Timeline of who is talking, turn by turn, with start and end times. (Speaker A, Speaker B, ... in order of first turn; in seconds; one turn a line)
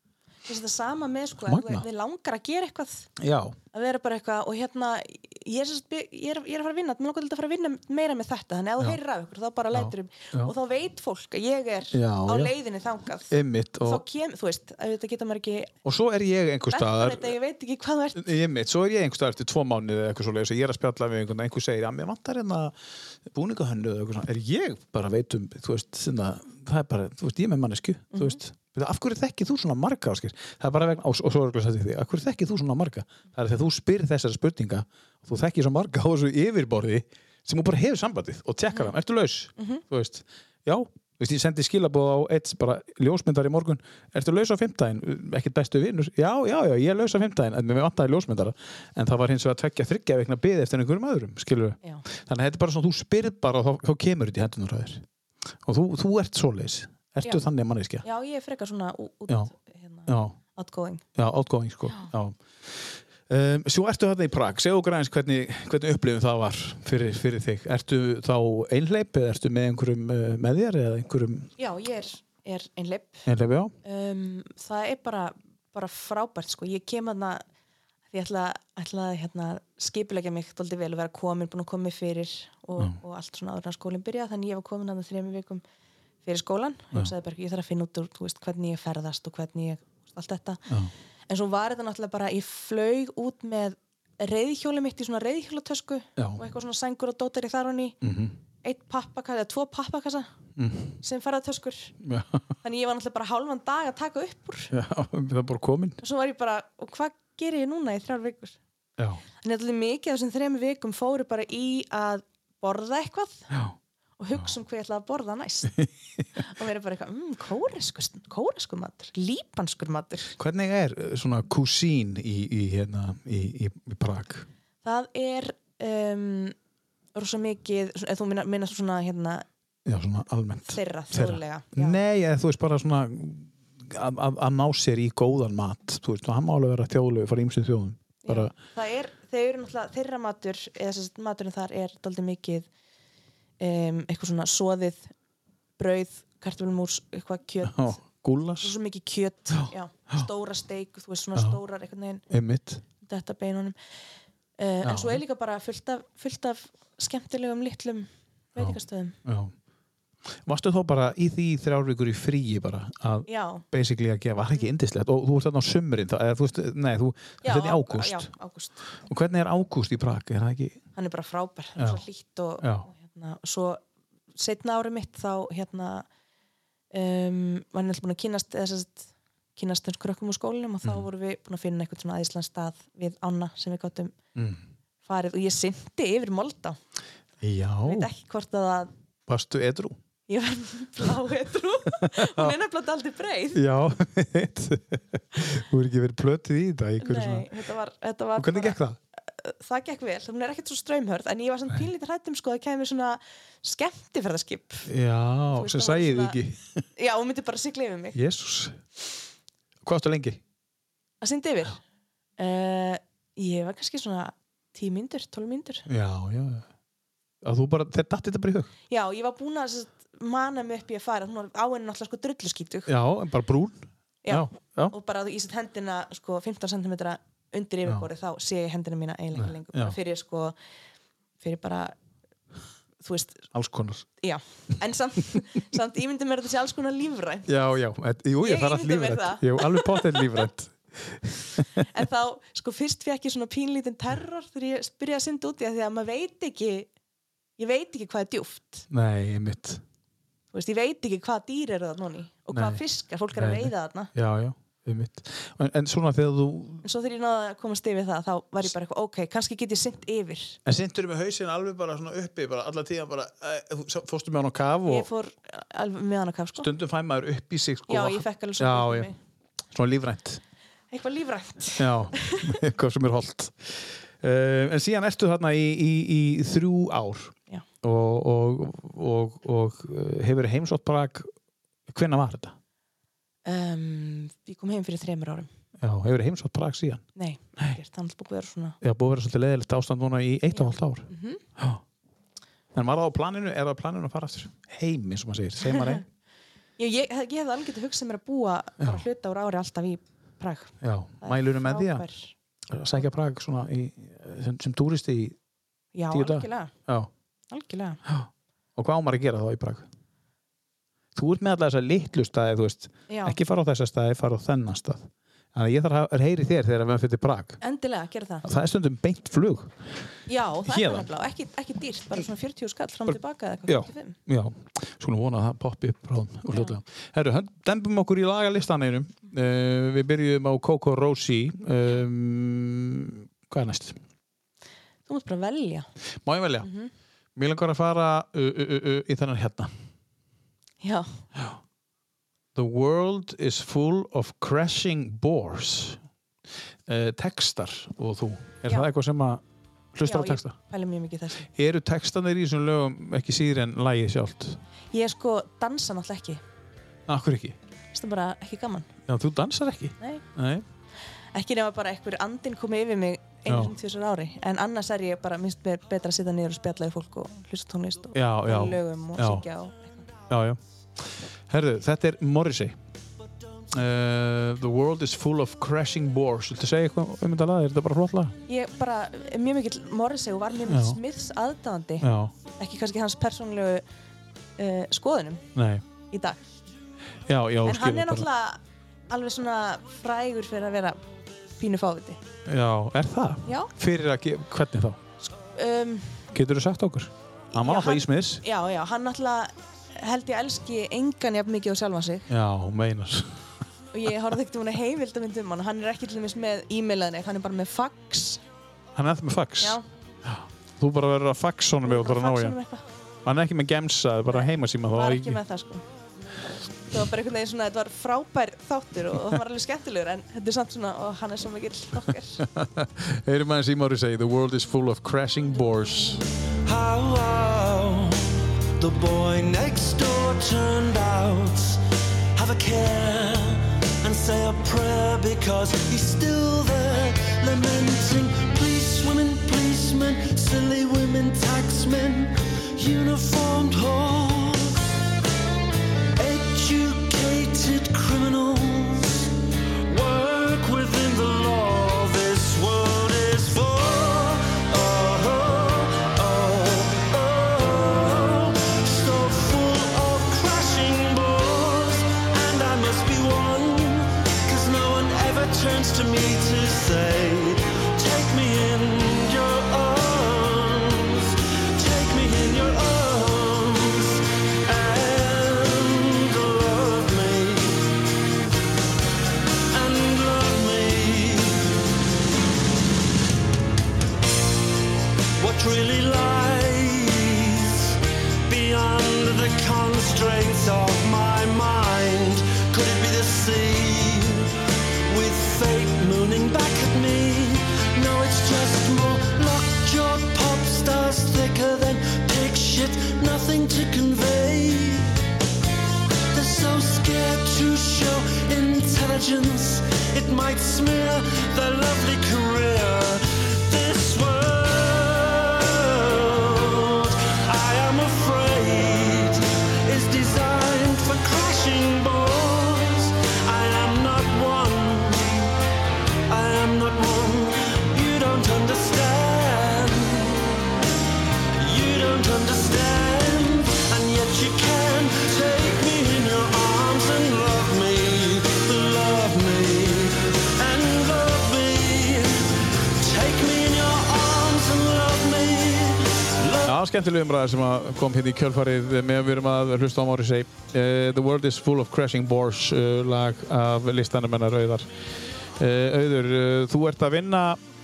Speaker A: 0.5-3.1
Speaker B: 1.4-1.8
Speaker B: 3.2-3.6
Speaker A: 3.7-15.7
Speaker B: 9.7-10.5
Speaker B: 11.9-12.6
Speaker B: 13.3-14.0
Speaker B: 15.8-17.4
Speaker A: 16.7-18.3
Speaker B: 18.2-55.0
Speaker A: 28.1-28.4
Speaker B: 55.6-58.0
Speaker A: 58.0-61.0
Speaker B: 60.1-60.4
Speaker B: 61.2-71.5
Speaker A: 71.6-73.3
Speaker B: 73.3-73.7
Speaker A: 73.8-77.4
Speaker A: 78.1-85.6
Speaker A: 86.2-90.6
Speaker A: 91.3-98.0
Speaker B: 96.2-96.5
Speaker B: 98.0-98.4
Speaker A: 98.6-100.3
Speaker B: 100.6-101.0
Speaker A: 101.0-102.0
Speaker B: 102.0-102.5
Speaker A: 102.6-104.7
Speaker B: 104.7-106.0
Speaker A: 106.0-108.6
Speaker B: 109.0-109.2
Speaker A: 109.4-113.5
Speaker A: 114.2-115.8
Speaker A: 116.4-120.3
Speaker B: 120.4-124.5
Speaker A: 124.8-126.5
Speaker A: 127.2-129.4
Speaker B: 129.8-138.5
Speaker A: 130.7-132.0
Speaker A: 138.2-142.7
Speaker A: 143.6-145.1
Speaker A: 145.8-148.0
Speaker B: 147.6-148.7
Speaker A: 148.6-152.2
Speaker B: 149.6-150.2
Speaker B: 152.3-152.8
Speaker A: 153.0-153.8
Speaker A: 154.6-159.2
Speaker B: 154.8-155.2
Speaker B: 158.6-159.5
Speaker B: 160.4-168.3
Speaker A: 163.3-163.6
Speaker A: 167.4-168.9
Speaker B: 168.9-170.8
Speaker A: 171.0-173.8
Speaker B: 171.8-172.0
Speaker B: 172.6-172.9
Speaker A: 174.3-176.1
Speaker A: 176.9-184.2
Speaker B: 184.3-184.6
Speaker A: 185.1-186.8
Speaker B: 187.4-188.1
Speaker A: 187.9-188.9
Speaker B: 189.3-190.0
Speaker A: 190.3-193.6
Speaker B: 192.0-192.5
Speaker B: 193.6-197.5
Speaker A: 197.0-204.9
Speaker B: 198.4-199.0
Speaker B: 204.9-206.8
Speaker A: 205.5-206.4
Speaker A: 207.0-208.2
Speaker B: 208.1-208.8
Speaker B: 209.8-210.4
Speaker A: 211.2-211.8
Speaker A: 212.4-215.8
Speaker B: 215.9-216.7
Speaker B: 217.4-218.7
Speaker A: 218.9-222.9
Speaker B: 222.9-224.9
Speaker A: 224.2-230.6
Speaker B: 229.3-230.0
Speaker A: 231.4-232.0
Speaker A: 233.0-233.5
Speaker B: 233.5-234.1
Speaker A: 234.2-237.5
Speaker B: 237.5-241.9
Speaker A: 238.4-240.4
Speaker A: 241.9-246.9
Speaker A: 247.6-248.9
Speaker B: 248.9-249.8
Speaker A: 250.5-254.1
Speaker B: 252.5-252.8
Speaker B: 253.3-256.9
Speaker A: 256.8-260.6
Speaker B: 260.6-265.1
Speaker A: 264.9-266.7
Speaker B: 266.6-269.1
Speaker A: 267.9-269.1
Speaker B: 269.7-270.4
Speaker A: 270.9-272.6
Speaker B: 271.8-281.3
Speaker B: 281.9-282.6
Speaker A: 283.5-285.5
Speaker B: 285.8-287.1
Speaker A: 287.2-288.8
Speaker B: 288.8-291.8
Speaker A: 290.5-291.4
Speaker B: 292.7-296.1
Speaker A: 295.7-296.0
Speaker A: 296.8-302.3
Speaker B: 300.8-302.1
Speaker B: 302.7-305.4
Speaker A: 305.9-306.7
Speaker B: 306.1-307.1
Speaker A: 307.5-308.0
Speaker B: 308.1-309.9
Speaker B: 311.1-317.6
Speaker A: 313.1-313.4
Speaker A: 317.6-318.5
Speaker B: 318.4-320.1
Speaker A: 320.3-324.2
Speaker B: 320.7-321.1
Speaker B: 323.1-334.0
Speaker A: 326.5-326.8
Speaker A: 335.1-335.9
Speaker B: 336.2-336.7
Speaker A: 336.6-336.9
Speaker B: 337.4-339.7
Speaker A: 340.8-341.2
Speaker B: 342.6-346.0
Speaker B: 346.9-349.4
Speaker B: 349.9-350.6
Speaker A: 350.0-351.5
Speaker B: 351.6-354.6
Speaker A: 354.9-356.4
Speaker B: 357.1-357.6
Speaker A: 357.9-358.9
Speaker B: 359.1-360.7
Speaker A: 361.3-370.0
Speaker B: 363.5-363.8
Speaker B: 368.1-369.5
Speaker B: 370.3-370.6
Speaker B: 371.5-372.8
Speaker B: 373.7-378.4
Speaker A: 378.5-382.1
Speaker B: 380.7-381.0
Speaker B: 382.0-382.4
Speaker A: 382.6-383.8
Speaker A: 384.6-385.5
Speaker B: 385.6-385.8
Speaker A: 386.1-386.4
Speaker B: 387.3-388.3
Speaker A: 387.6-391.0
Speaker A: 391.6-392.2
Speaker B: 392.5-395.0
Speaker A: 393.5-393.7
Speaker A: 395.4-396.2
Speaker B: 396.3-398.4
Speaker A: 397.5-402.3
Speaker B: 402.3-403.4
Speaker A: 403.9-408.4
Speaker B: 408.9-412.6
Speaker A: 411.8-412.8
Speaker B: 413.2-415.4
Speaker A: 414.3-415.9
Speaker A: 416.9-422.4
Speaker B: 422.4-426.2
Speaker C: 426.6-431.8
Speaker C: 432.4-445.0
Speaker C: 446.2-449.3
Speaker C: 449.9-478.0
Speaker C: 479.7-481.8
Speaker C: 485.4-505.2
Speaker C: 506.3-525.5
Speaker C: 526.3-530.7
Speaker C: 531.5-546.8
Speaker B: 546.6-554.9
Speaker B: 555.6-557.6